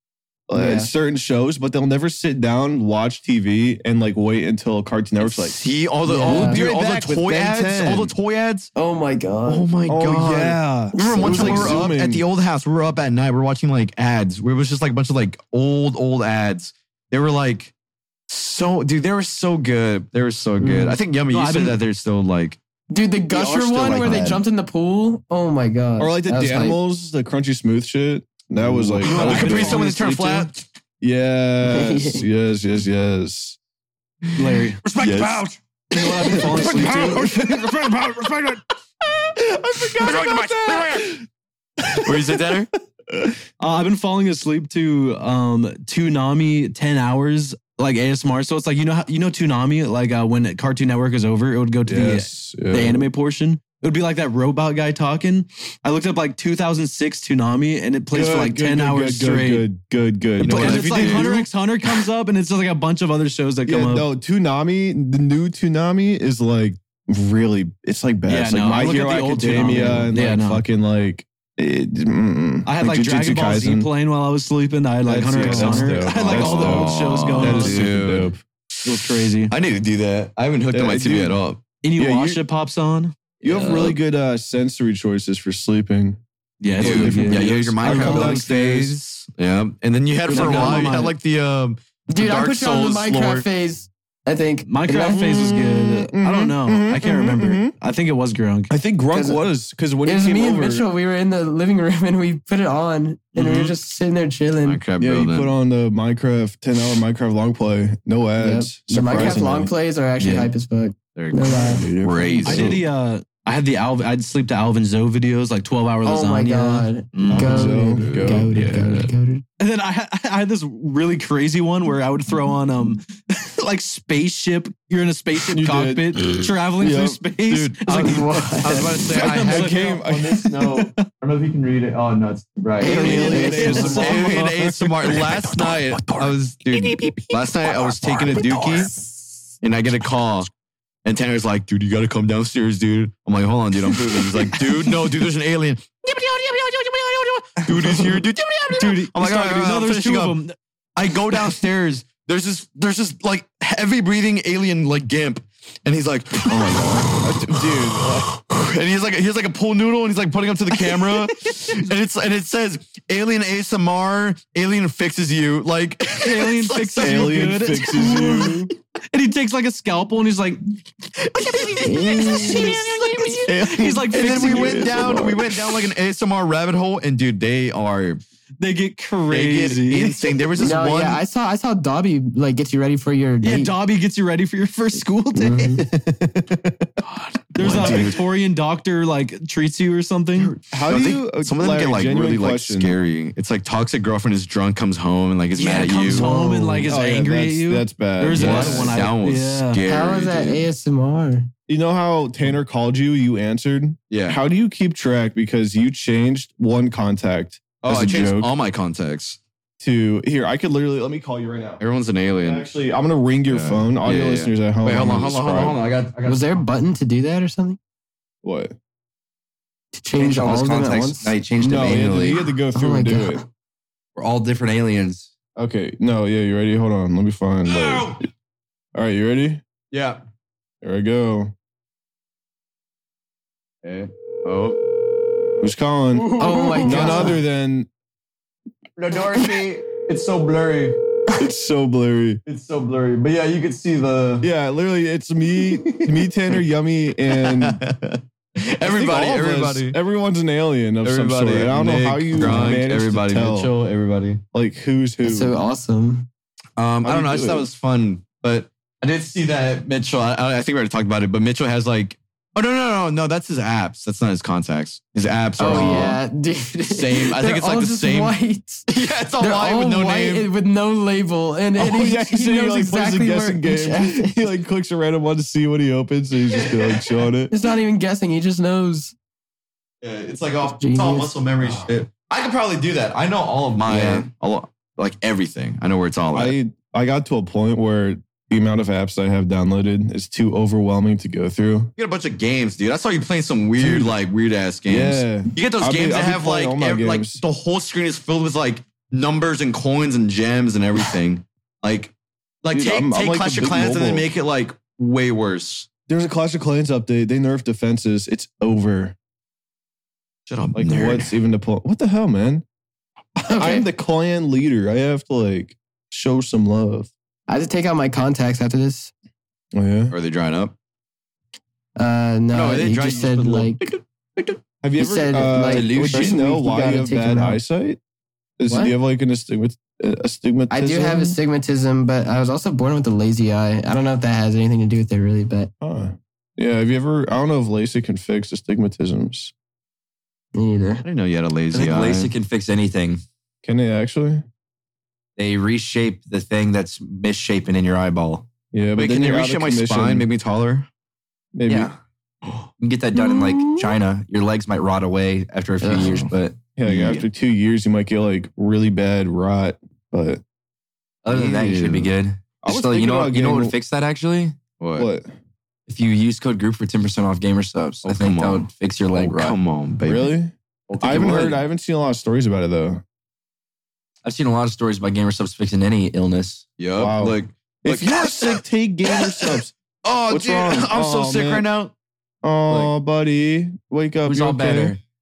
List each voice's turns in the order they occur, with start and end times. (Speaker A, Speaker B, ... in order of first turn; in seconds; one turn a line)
Speaker A: 0.5-5.6
Speaker B: 0.5-0.9
Speaker C: 5.2-8.7
Speaker B: 6.0-6.6
Speaker A: 6.3-8.2
Speaker B: 8.8-9.7
Speaker C: 9.5-17.7
Speaker A: 9.9-12.2
Speaker B: 11.0-11.5
Speaker D: 11.3-11.9
Speaker C: 18.3-22.6
Speaker B: 20.6-21.0
Speaker D: 21.3-21.8
Speaker B: 22.9-26.8
Speaker E: 23.3-24.4
Speaker A: 26.0-30.5
Speaker D: 28.7-29.9
Speaker C: 29.0-30.7
Speaker A: 31.0-33.6
Speaker B: 31.7-32.2
Speaker C: 34.3-38.6
Speaker D: 34.4-35.1
Speaker A: 35.0-35.5
Speaker D: 35.9-37.6
Speaker A: 36.0-38.3
Speaker A: 39.4-41.2
Speaker C: 39.7-41.2
Speaker A: 41.8-42.2
Speaker C: 42.0-42.7
Speaker A: 43.1-43.4
Speaker D: 43.6-59.7
Speaker A: 51.9-53.1
Speaker A: 58.1-61.4
Speaker C: 60.4-61.5
Speaker D: 60.4-64.1
Speaker A: 63.7-73.9
Speaker D: 68.3-70.7
Speaker D: 72.7-78.0
Speaker A: 75.0-78.4
Speaker C: 75.3-78.3
Speaker D: 78.8-79.5
Speaker C: 78.8-81.6
Speaker A: 80.7-81.4
Speaker D: 81.8-83.9
Speaker A: 82.0-82.4
Speaker A: 83.4-86.2
Speaker C: 83.5-84.0
Speaker D: 86.6-88.5
Speaker A: 86.7-89.0
Speaker C: 86.8-93.5
Speaker D: 90.3-91.2
Speaker A: 90.3-90.9
Speaker B: 92.1-95.5
Speaker D: 94.7-98.8
Speaker A: 95.3-97.7
Speaker A: 98.7-100.9
Speaker B: 99.1-99.4
Speaker B: 100.0-104.8
Speaker D: 103.4-103.7
Speaker C: 104.6-105.5
Speaker A: 105.0-109.7
Speaker B: 108.4-111.9
Speaker C: 109.1-109.4
Speaker D: 110.2-110.5
Speaker C: 111.2-112.8
Speaker A: 111.5-112.9
Speaker D: 112.4-116.9
Speaker B: 116.0-119.4
Speaker C: 117.2-119.1
Speaker A: 117.3-118.5
Speaker D: 119.6-130.0
Speaker A: 125.5-126.2
Speaker A: 126.8-127.2
Speaker C: 127.5-138.9
Speaker B: 127.9-128.8
Speaker A: 129.2-130.5
Speaker D: 130.7-130.9
Speaker D: 132.8-134.4
Speaker A: 132.8-136.8
Speaker B: 132.8-134.2
Speaker A: 138.0-138.8
Speaker C: 139.6-140.5
Speaker C: 141.1-150.4
Speaker D: 148.8-150.6
Speaker C: 151.0-167.4
Speaker A: 156.5-158.3
Speaker D: 166.2-170.6
Speaker A: 167.0-168.7
Speaker D: 171.2-175.3
Speaker B: 171.8-173.2
Speaker C: 173.5-178.2
Speaker A: 173.5-175.8
Speaker D: 178.6-180.3
Speaker C: 179.3-181.2
Speaker B: 180.6-183.8
Speaker D: 183.4-185.8
Speaker B: 185.3-185.8
Speaker A: 185.8-186.9
Speaker D: 187.5-190.6
Speaker C: 187.6-188.2
Speaker A: 187.7-188.2
Speaker C: 190.3-196.3
Speaker A: 190.7-193.0
Speaker D: 195.6-199.8
Speaker A: 196.1-199.1
Speaker C: 198.3-200.7
Speaker B: 199.8-201.5
Speaker A: 201.7-208.5
Speaker C: 204.1-204.4
Speaker C: 207.8-209.4
Speaker A: 209.8-211.8
Speaker C: 211.8-212.7
Speaker A: 212.4-215.8
Speaker C: 213.5-216.6
Speaker B: 216.2-217.8
Speaker A: 218.4-218.8
Speaker B: 220.0-221.3
Speaker E: 220.2-222.5
Speaker A: 221.6-223.5
Speaker B: 222.7-223.4
Speaker E: 224.2-225.3
Speaker A: 225.6-228.2
Speaker C: 227.7-228.2
Speaker A: 228.9-229.6
Speaker C: 229.9-230.2
Speaker A: 230.8-231.5
Speaker C: 233.8-234.9
Speaker A: 235.6-236.3
Speaker C: 236.1-237.4
Speaker B: 236.4-237.4
Speaker A: 236.8-237.9
Speaker C: 239.0-241.0
Speaker A: 241.4-242.4
Speaker C: 242.4-244.5
Speaker A: 244.4-247.8
Speaker C: 245.6-246.1
Speaker C: 247.3-250.0
Speaker A: 248.8-253.7
Speaker C: 251.0-254.4
Speaker A: 254.5-255.6
Speaker B: 255.2-256.3
Speaker C: 256.8-266.2
Speaker A: 257.0-257.7
Speaker B: 265.6-274.4
Speaker A: 265.6-266.1
Speaker C: 266.9-268.4
Speaker C: 268.9-270.5
Speaker A: 271.8-277.5
Speaker C: 276.5-277.2
Speaker B: 277.5-279.1
Speaker C: 280.0-286.6
Speaker B: 280.8-281.3
Speaker A: 281.6-281.9
Speaker E: 283.9-284.3
Speaker A: 286.3-291.9
Speaker C: 292.0-302.1
Speaker A: 293.8-294.1
Speaker A: 294.9-297.4
Speaker C: 302.6-305.9
Speaker A: 302.7-304.3
Speaker A: 306.1-309.2
Speaker C: 310.5-311.3
Speaker A: 310.7-312.6
Speaker A: 313.4-317.1
Speaker B: 313.5-313.9
Speaker B: 317.5-319.1
Speaker A: 319.7-320.1
Speaker C: 320.1-320.7
Speaker B: 322.0-323.9
Speaker C: 322.5-324.6
Speaker A: 324.8-328.0
Speaker B: 325.0-327.6
Speaker E: 325.7-326.4
Speaker A: 328.6-331.4
Speaker B: 328.7-328.9
Speaker B: 330.7-335.7
Speaker A: 335.8-339.5
Speaker B: 340.5-341.1
Speaker C: 341.0-342.3
Speaker E: 341.7-343.2
Speaker A: 343.6-344.4
Speaker E: 345.4-348.5
Speaker A: 348.7-350.3
Speaker C: 349.0-350.9
Speaker A: 351.5-351.9
Speaker E: 351.7-352.0
Speaker E: 352.8-357.2
Speaker B: 353.3-353.9
Speaker B: 355.8-356.2
Speaker C: 355.9-356.3
Speaker A: 356.8-360.4
Speaker C: 356.9-357.2
Speaker E: 361.2-364.6
Speaker C: 361.3-362.1
Speaker A: 362.6-363.7
Speaker C: 364.8-365.1
Speaker A: 365.0-365.4
Speaker E: 365.9-369.6
Speaker C: 368.0-370.3
Speaker A: 370.1-373.0
Speaker C: 370.9-371.6
Speaker E: 374.2-376.6
Speaker C: 376.8-381.9
Speaker A: 377.0-379.7
Speaker A: 380.3-381.7
Speaker A: 382.4-384.9
Speaker E: 384.2-385.0